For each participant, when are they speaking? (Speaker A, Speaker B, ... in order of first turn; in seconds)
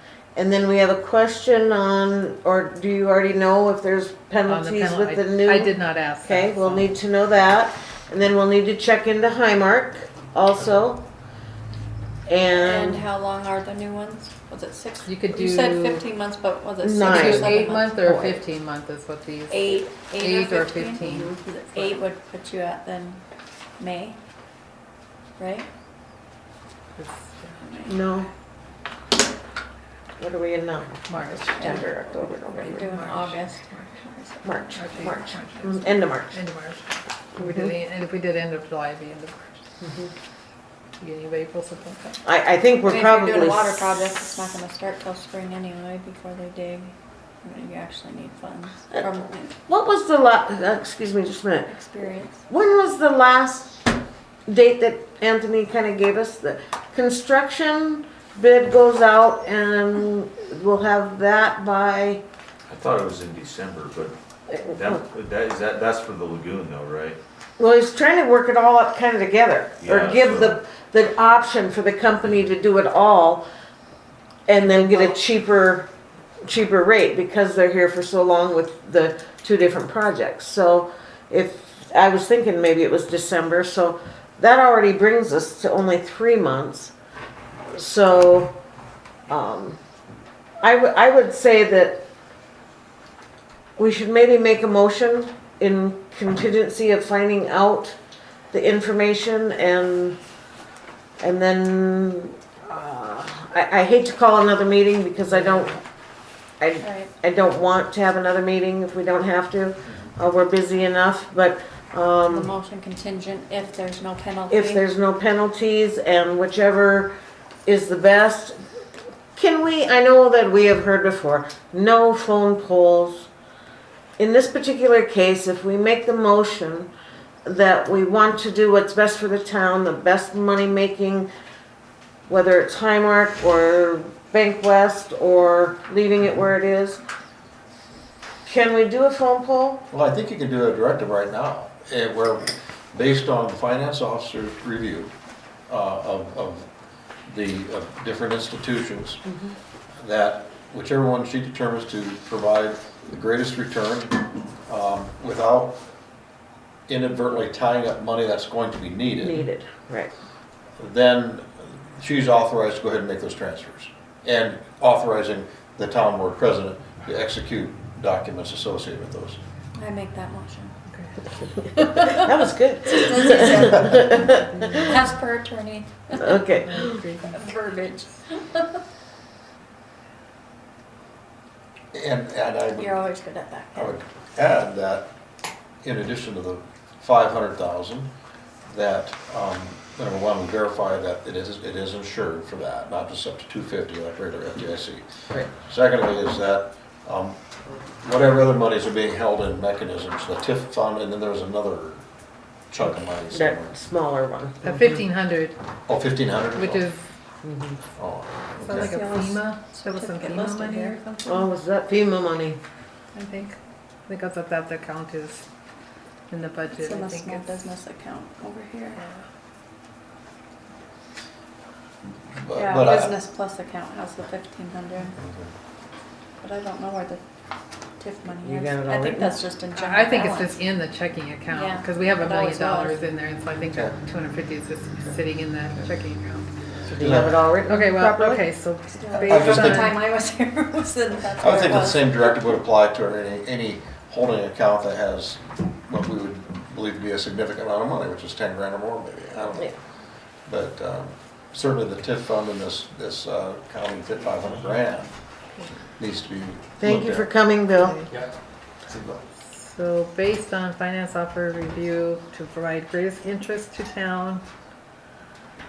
Speaker A: 0.3-11.0, 12.2-13.1, 16.8-18.4, 21.1-21.3, 27.9-28.3, 30.2-32.9, 34.4-36.4, 37.4-37.7, 39.8-40.1, 42.2-43.8, 48.9-51.7, 52.4-53.9, 54.5-62.2, 67.6-73.4, 74.5-75.9, 76.4-86.9, 87.7-88.5, 89.3-89.8, 90.6-92.0, 93.8-98.0, 98.5-100.2, 101.2-105.8, 106.6-112.5, 114.5-117.1, 117.7-118.5, 119.3-123.3, 124.2-126.9, 127.4-131.3, 132.3-137.0, 138.4-139.8, 149.3-149.5, 159.2-160.1, 172.0-174.7, 176.1-177.0, 203.3-204.9, 207.4-207.8, 211.2-212.6, 228.4-229.4, 236.8-238.4, 256.8-258.0
Speaker B: 4.5-6.9, 15.1-16.0, 17.1-21.9, 26.9-27.6, 31.1-31.7, 32.6-33.4, 34.7-39.8, 41.0-42.2, 170.9-172.2, 174.0-174.9, 176.7-177.3, 204.6-205.5, 206.6-207.0, 208.6-211.3, 213.1-213.6, 214.1-215.4, 216.3-217.6, 218.9-219.2, 229.7-236.5, 237.7-240.0, 257.8-258.1, 259.5-264.4
Speaker C: 12.5-18.1, 19.5-23.2, 23.8-24.2, 25.4-25.7, 27.6-27.9, 31.6-31.8, 32.6-35.3, 42.8-49.5, 51.7-52.4, 74.7-75.1, 106.8-107.1, 112.3-114.9, 169.8-170.7, 172.9-174.0, 174.8-176.4, 177.3-178.8, 182.8-183.9, 208.7-211.2, 216.7-219.0, 222.5-225.1, 226.4-227.2, 228.0-230.6, 231.5-233.0, 239.0-242.4
Speaker D: 62.7-67.2, 69.8-70.6, 258.9-259.2
Speaker E: 139.9-145.1, 145.7-146.7, 147.3-149.2, 150.0-155.8, 156.9-159.4, 160.8-169.4, 181.9-183.0, 183.7-185.1, 185.8-188.1, 188.7-197.4, 198.0-202.1, 202.7-203.7, 205.9-206.9, 208.0-208.9, 222.3-223.1, 225.2-225.5, 237.0-237.4, 239.2-239.9, 241.4-249.7, 250.4-255.2, 256.0-257.3